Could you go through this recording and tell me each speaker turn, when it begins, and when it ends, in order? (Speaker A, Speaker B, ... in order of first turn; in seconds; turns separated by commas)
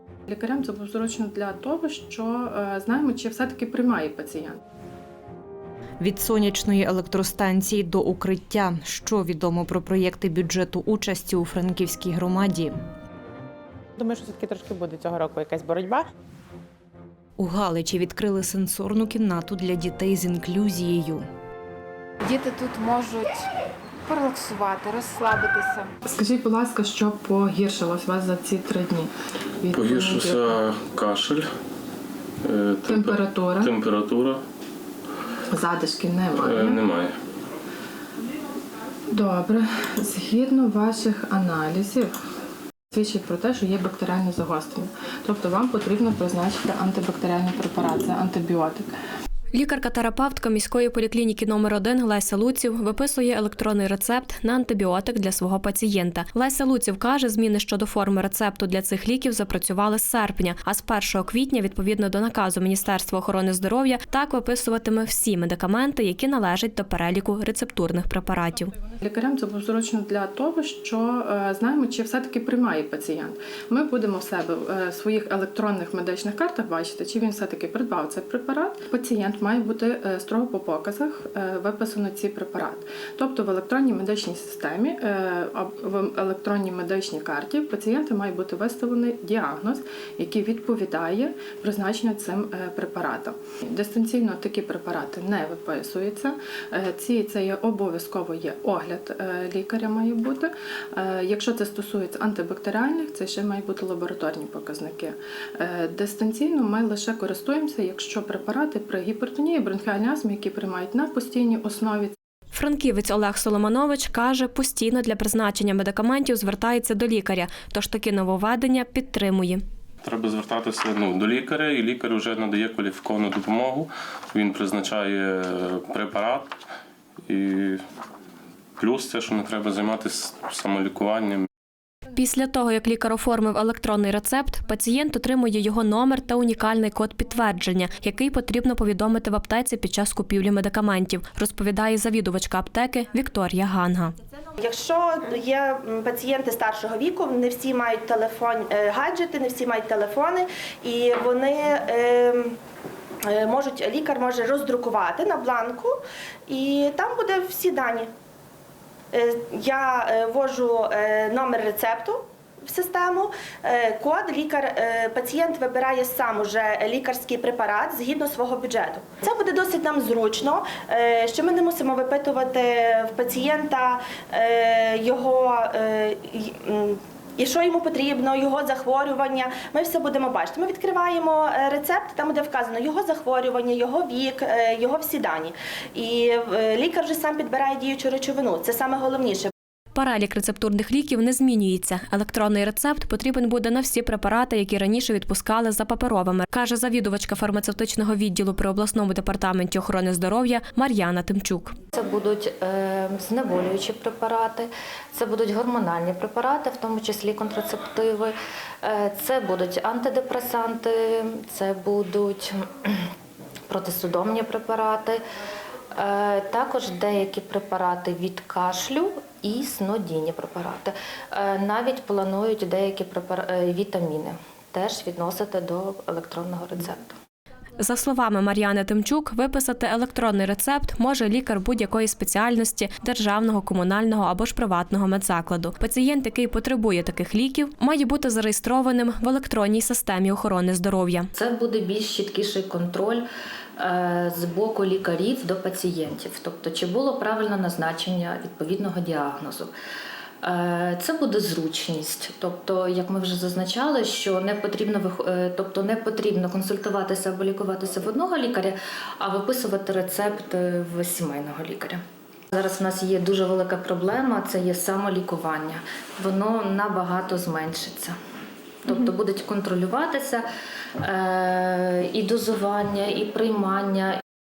Speaker A: 0.3-4.6, Speaker B: 6.0-12.8, Speaker C: 14.0-16.0, Speaker B: 17.4-21.3, Speaker D: 22.2-23.4, Speaker D: 24.1-25.9, Speaker A: 26.0-29.1, Speaker A: 29.6-30.6, Speaker E: 29.7-31.5, Speaker E: 32.4-34.4, Speaker A: 32.9-33.7, Speaker A: 35.5-36.8, Speaker E: 36.4-37.1, Speaker A: 39.1-42.1, Speaker A: 42.9-48.9, Speaker F: 49.5-68.7, Speaker A: 69.0-112.1, Speaker F: 112.5-119.6, Speaker E: 120.0-126.5, Speaker E: 127.3-127.8, Speaker E: 128.8-131.5, Speaker F: 132.2-144.1, Speaker G: 144.6-152.5, Speaker G: 153.3-155.9, Speaker G: 156.5-158.1, Speaker G: 159.1-189.5, Speaker F: 189.9-201.8, Speaker H: 201.9-213.1, Speaker H: 213.7-215.2, Speaker H: 215.9-227.2, Speaker F: 227.8-241.3, Speaker H: 241.3-243.2, Speaker H: 243.8-249.7, Speaker H: 250.4-262.0, Speaker H: 262.5-268.1, Speaker H: 268.8-270.4, Speaker H: 271.0-274.2